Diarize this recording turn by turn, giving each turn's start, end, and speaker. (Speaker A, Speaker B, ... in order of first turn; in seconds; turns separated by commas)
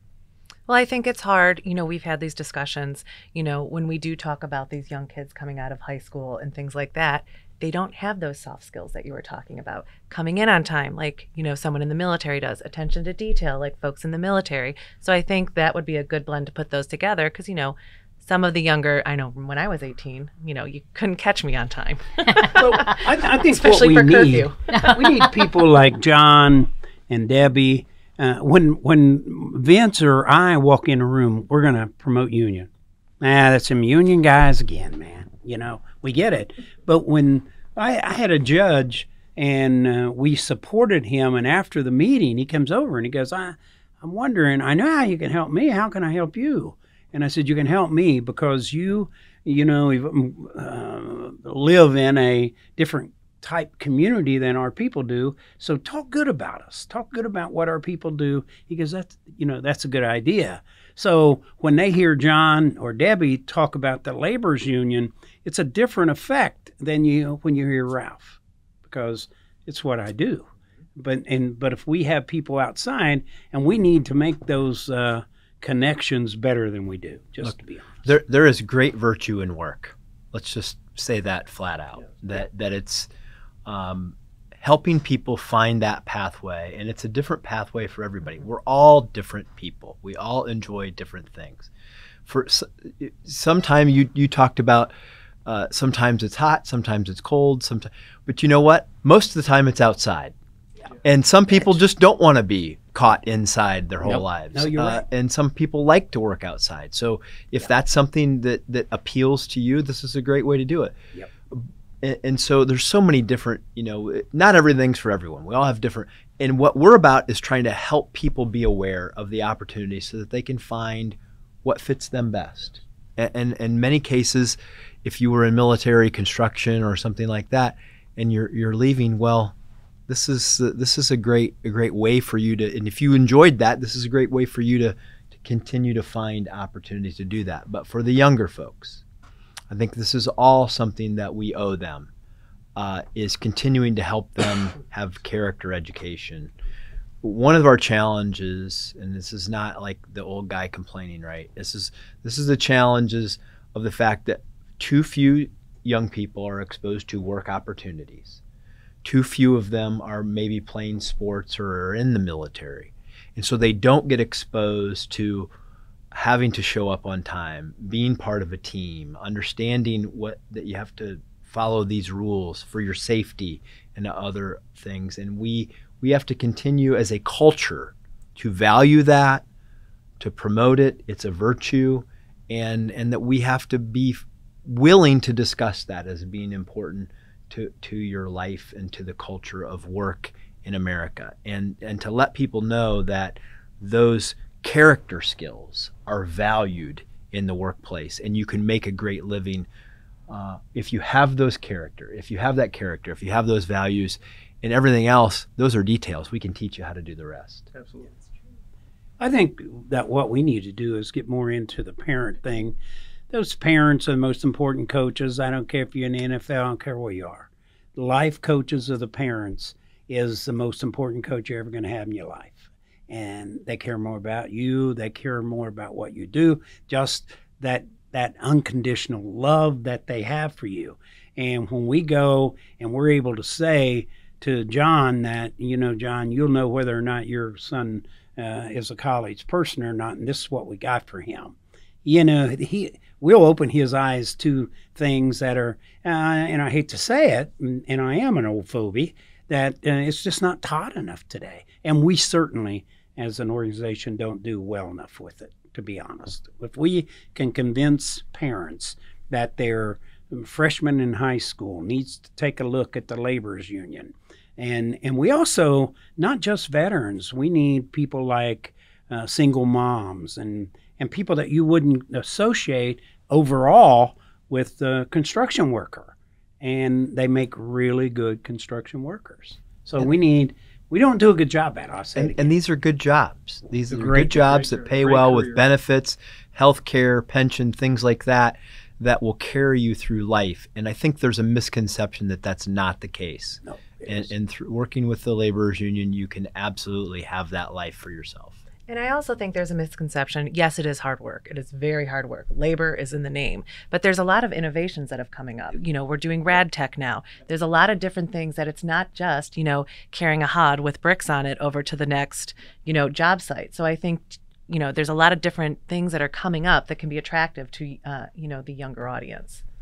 Speaker A: 0.7-25.0, Speaker B: 22.4-32.7, Speaker B: 33.2-78.1, Speaker C: 77.4-83.1, Speaker C: 83.7-91.7, Speaker C: 92.3-94.9, Speaker C: 95.5-100.3, Speaker C: 101.0-111.0, Speaker B: 104.0-105.0, Speaker C: 111.5-129.6, Speaker C: 130.1-139.0, Speaker C: 139.7-142.1, Speaker C: 142.8-146.5, Speaker C: 147.2-158.4, Speaker C: 159.0-165.5, Speaker C: 166.1-179.4, Speaker C: 180.2-199.7, Speaker C: 200.3-207.7, Speaker D: 207.7-208.1, Speaker B: 209.2-212.8, Speaker B: 213.3-282.5, Speaker C: 282.2-298.6, Speaker B: 283.9-284.4, Speaker D: 284.1-285.6, Speaker B: 293.6-294.3, Speaker A: 298.9-319.6